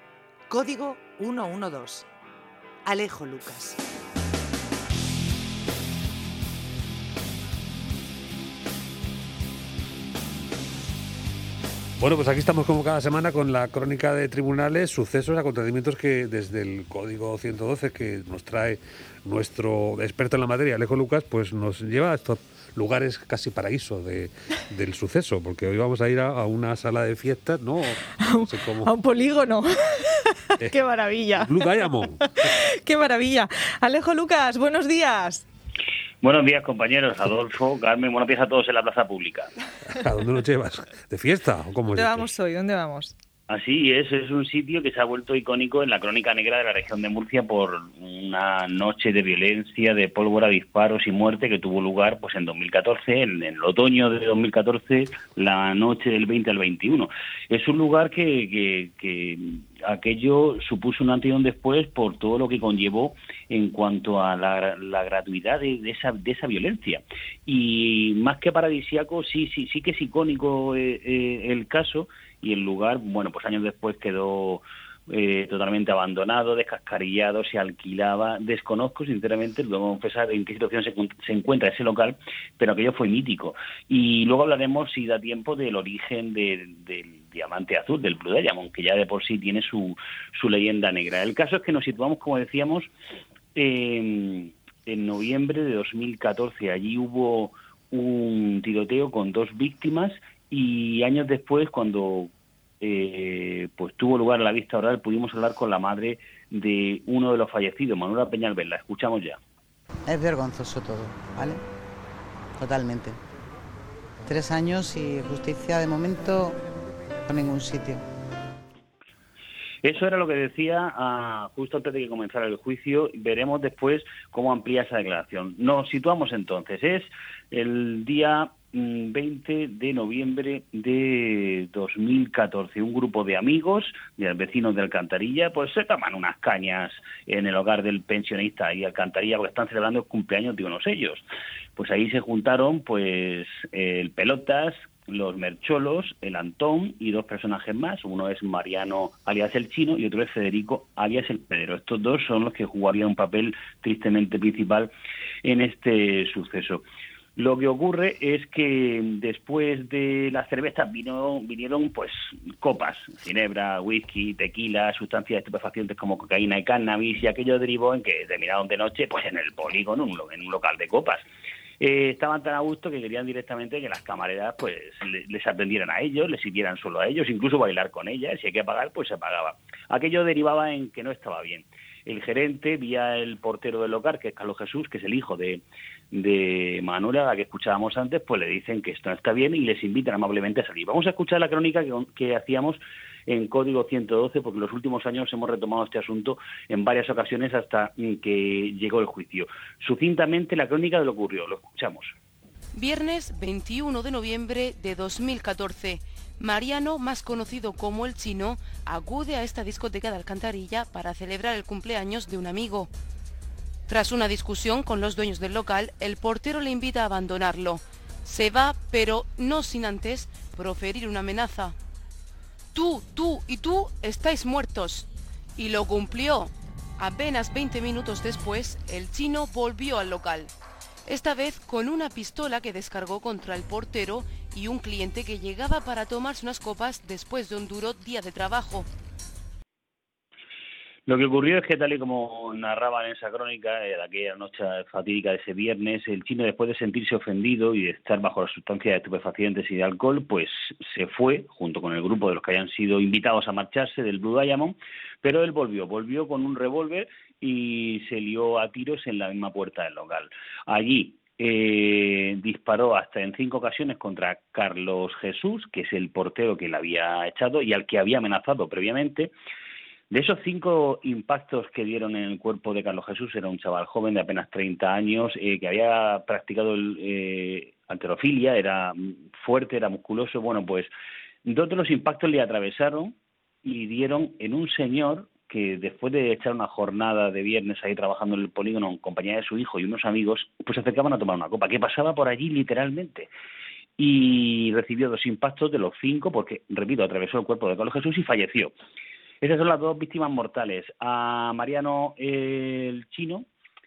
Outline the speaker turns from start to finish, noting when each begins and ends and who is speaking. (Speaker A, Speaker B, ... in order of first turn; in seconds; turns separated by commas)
Speaker A: 0.5-2.1, Speaker A: 2.9-3.8, Speaker B: 12.0-28.9, Speaker C: 28.1-35.4, Speaker B: 30.6-32.3, Speaker D: 36.2-39.5, Speaker B: 39.9-42.3, Speaker C: 41.9-43.1, Speaker D: 43.5-92.9, Speaker D: 93.5-109.4, Speaker E: 110.1-111.6, Speaker E: 112.6-113.2, Speaker E: 114.3-116.5, Speaker E: 117.3-118.0, Speaker D: 119.8-154.9, Speaker D: 155.4-156.8, Speaker D: 157.4-171.3, Speaker D: 171.8-202.1, Speaker F: 202.7-212.9, Speaker F: 213.9-221.8, Speaker F: 222.7-230.5, Speaker F: 231.1-238.9, Speaker D: 241.1-269.3, Speaker D: 270.1-280.9, Speaker D: 281.4-293.3, Speaker D: 294.0-298.7, Speaker D: 299.4-303.5